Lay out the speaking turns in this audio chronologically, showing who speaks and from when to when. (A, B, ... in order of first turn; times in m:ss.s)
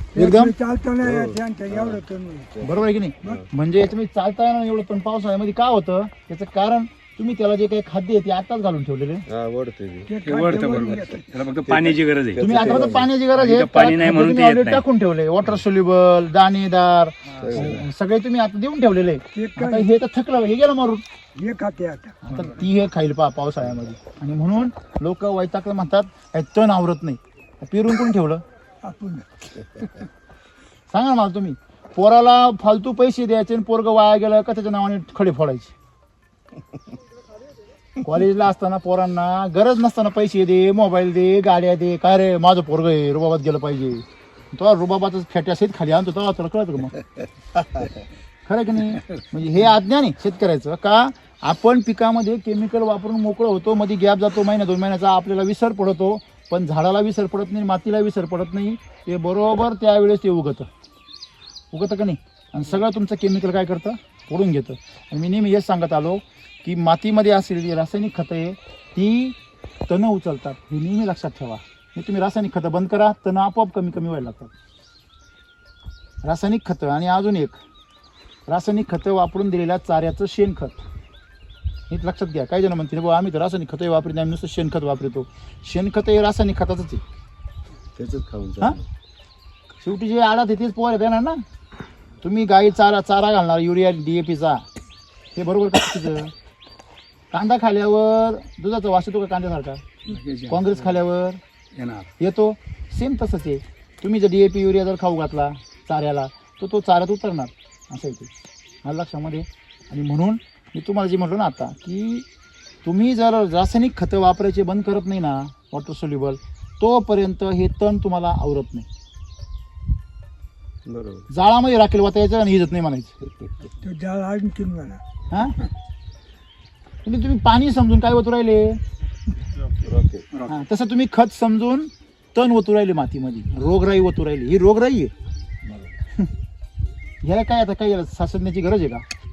0:00.1-0:02.6 A
0:00.2-0:00.6 B
0:01.0-0:02.0 C
0:02.6-0:03.4 C
0:02.6-0:09.2 B
0:09.3-0:10.1 C
0:10.1-0:11.4 A
0:10.2-0:14.8 D
0:11.7-0:13.1 C
0:12.4-0:21.0 B
0:17.3-0:17.9 D
0:17.4-0:17.8 C
0:19.3-0:19.9 A
0:21.4-0:22.2 A
0:22.2-0:28.4 B
0:28.8-0:30.0 A
0:30.9-0:35.8 B
0:38.0-0:47.0 B
0:48.4-1:00.7 B
1:01.7-1:09.4 B
1:09.9-1:14.5 B
1:16.2-1:17.6 B
1:18.5-1:20.8 B
1:21.9-1:27.0 B
1:28.0-1:28.8 C
1:29.8-1:31.4 B
1:32.2-1:34.6 B
1:35.4-1:36.3 B
1:37.3-1:39.8 B
1:40.1-1:41.0 D
1:40.5-1:41.4 B
1:41.8-1:42.1 D
1:42.2-1:48.3 B
1:48.8-1:52.3 B
1:52.8-1:58.9 B
2:00.9-2:01.3 C
2:01.3-2:03.2 B
2:03.2-2:03.5 C
2:03.8-2:05.0 A
2:05.3-2:05.6 B
2:07.0-2:08.8 B
2:09.8-2:10.3 C
2:10.5-2:15.1 B
2:17.2-2:19.0 B